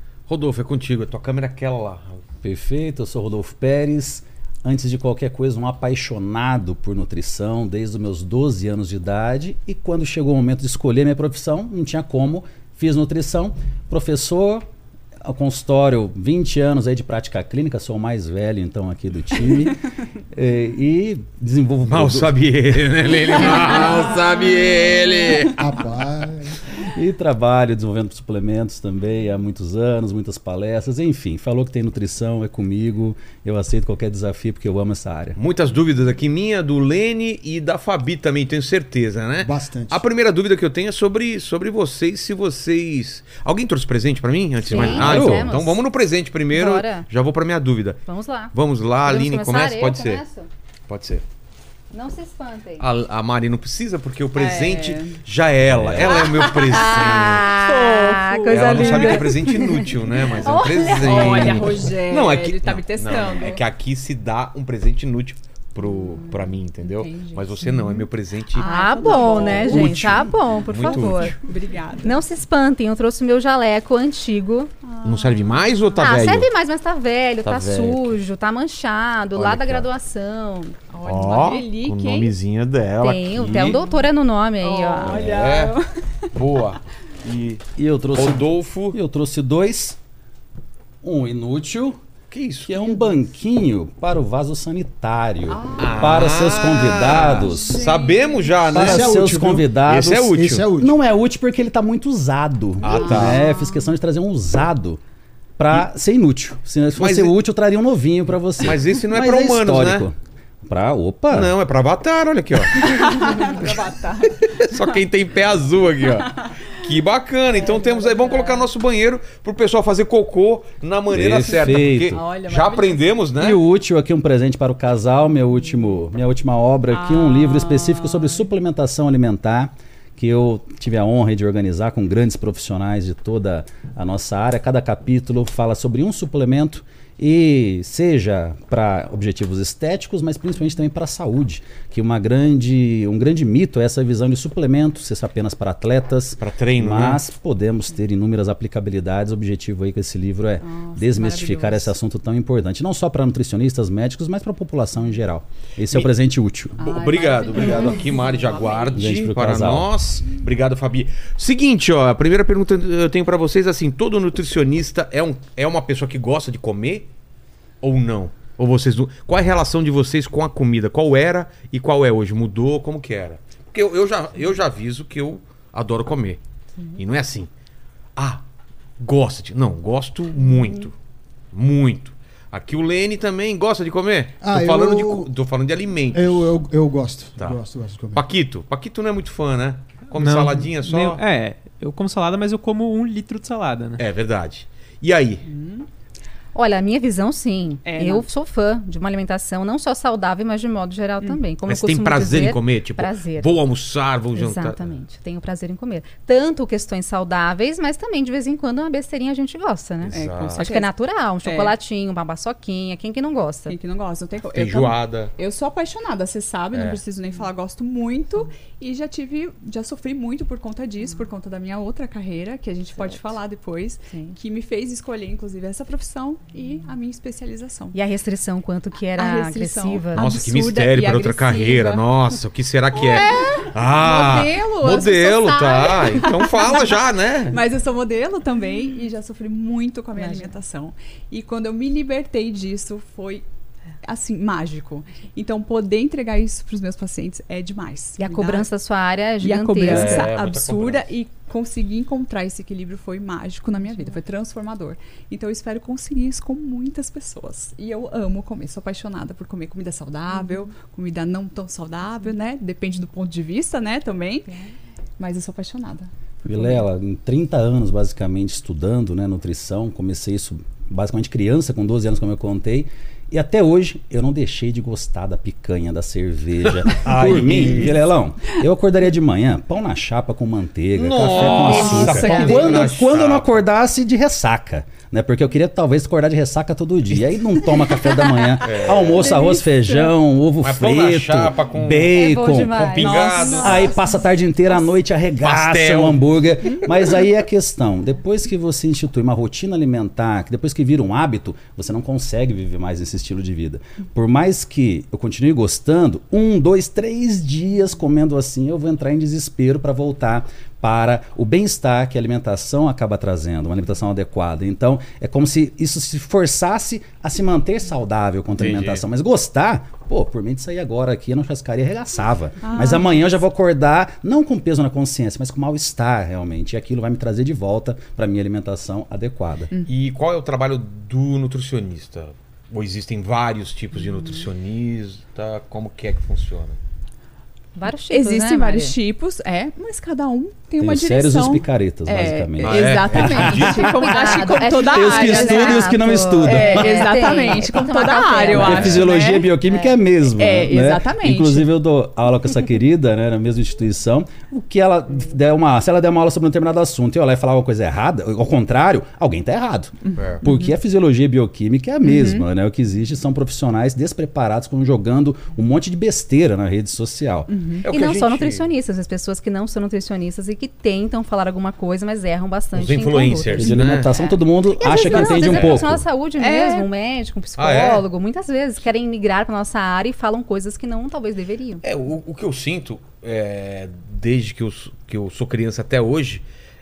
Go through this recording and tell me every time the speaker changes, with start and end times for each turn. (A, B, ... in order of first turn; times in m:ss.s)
0:00.3-0:02.2 A
0:02.4-0:14.6 B
0:15.2-0:19.8 B
0:20.3-0:22.4 B
0:21.9-0:25.8 A
0:25.4-0:26.4 C
0:26.9-0:35.4 B
0:35.4-0:50.2 A
0:39.4-0:40.0 C
0:44.6-0:45.8 D
0:44.7-0:45.5 B
0:46.5-0:47.1 D
0:48.0-0:48.5 D
0:49.0-0:50.5 D
0:50.9-0:51.2 A
0:51.9-0:52.8 D
0:52.8-0:57.5 A
0:54.4-0:55.2 E
0:55.7-0:56.2 B
0:56.0-0:59.8 D
0:56.4-0:59.8 E
0:58.5-1:11.4 A
1:00.4-1:03.6 E
1:00.9-1:01.6 D
1:06.1-1:08.0 E
1:08.5-1:11.4 D
1:08.6-1:10.1 E
1:10.8-1:12.2 E
1:12.0-1:14.7 D
1:14.8-1:15.8 E
1:15.0-1:16.5 A
1:16.0-1:20.7 D
1:17.4-1:18.2 A
1:19.3-1:19.9 A
1:20.9-1:22.3 E
1:21.0-1:23.8 A
1:23.0-1:25.2 D
1:24.6-1:26.3 E
1:25.0-1:25.8 A
1:26.3-1:29.0 A
1:27.8-1:30.0 B
1:31.0-1:32.0 B
1:32.3-1:32.8 A
1:32.6-1:37.8 B
1:35.5-1:36.2 E
1:35.8-1:39.3 A
1:37.4-1:38.4 E
1:38.7-1:39.7 C
1:38.7-1:45.0 B
1:39.9-1:40.6 A
1:40.3-1:40.9 C
1:42.8-1:43.4 A
1:42.8-1:43.8 E
1:45.6-1:51.5 B
1:47.0-1:47.3 A
1:48.6-1:50.1 A
1:51.3-1:53.5 A
1:52.8-1:55.0 E
1:54.4-2:03.6 A
1:56.2-1:56.6 E
1:57.5-1:58.7 E
2:01.1-2:02.2 B
2:01.7-2:03.0 E
2:03.4-2:36.8 B
2:06.9-2:08.4 E
2:26.4-2:27.2 A
2:30.6-2:31.9 E
2:36.8-2:39.0 E
2:36.8-2:47.1 A
2:38.9-2:39.9 B
2:47.8-2:56.4 A
2:56.9-2:57.5 A
2:58.2-2:58.4 A
2:59.0-3:00.9 A
3:01.5-3:06.6 A
3:04.4-3:05.3 C
3:06.1-3:08.2 C
3:08.1-3:11.2 A
3:10.1-3:14.0 F
3:14.0-3:15.4 A
3:15.5-3:15.8 E
3:16.5-3:23.5 D
3:17.8-3:18.2 E
3:21.7-3:24.9 A
3:24.3-3:33.8 D
3:30.0-3:30.6 A
3:30.1-3:30.9 E
3:31.4-3:31.7 E
3:33.7-3:48.0 E
3:34.5-3:35.3 A
3:36.7-3:37.0 A
3:43.0-3:43.3 D
3:44.1-3:44.3 D
3:47.9-3:50.2 D
3:49.2-3:52.0 E
3:50.1-3:57.6 A
3:52.9-4:03.4 E
4:04.0-4:08.7 E
4:08.2-4:10.3 D
4:09.4-4:24.5 E
4:09.8-4:11.1 A
4:25.2-4:26.8 E
4:26.4-5:29.7 B
4:36.8-4:38.0 A
4:40.9-4:43.6 A
4:41.4-4:42.8 E
4:47.1-4:47.7 A
4:48.6-4:49.3 A
4:49.1-4:50.1 E
4:50.6-4:52.2 A
4:52.1-4:53.8 D
4:52.9-4:53.9 A
4:53.0-4:54.3 E
4:55.4-4:56.2 A
5:18.6-5:19.0 A
5:22.6-5:23.4 E
5:29.8-5:36.8 A
5:37.7-5:39.0 D
5:38.1-5:49.5 E
5:40.8-5:43.7 B
5:42.6-5:44.3 A
5:43.1-5:49.1 D
5:44.4-5:47.3 B
5:48.4-6:07.5 B
5:48.7-5:49.0 A
5:49.7-5:49.9 D
5:50.3-5:51.7 E
6:00.0-6:00.7 E
6:00.2-6:00.4 A
6:02.0-6:02.4 E
6:07.5-6:07.8 E
6:07.8-6:08.7 A
6:07.9-6:21.8 D
6:12.7-6:14.1 A
6:13.6-6:16.0 B
6:15.2-6:15.9 A
6:16.4-6:16.9 E
6:17.6-6:18.0 A
6:21.8-6:26.4 A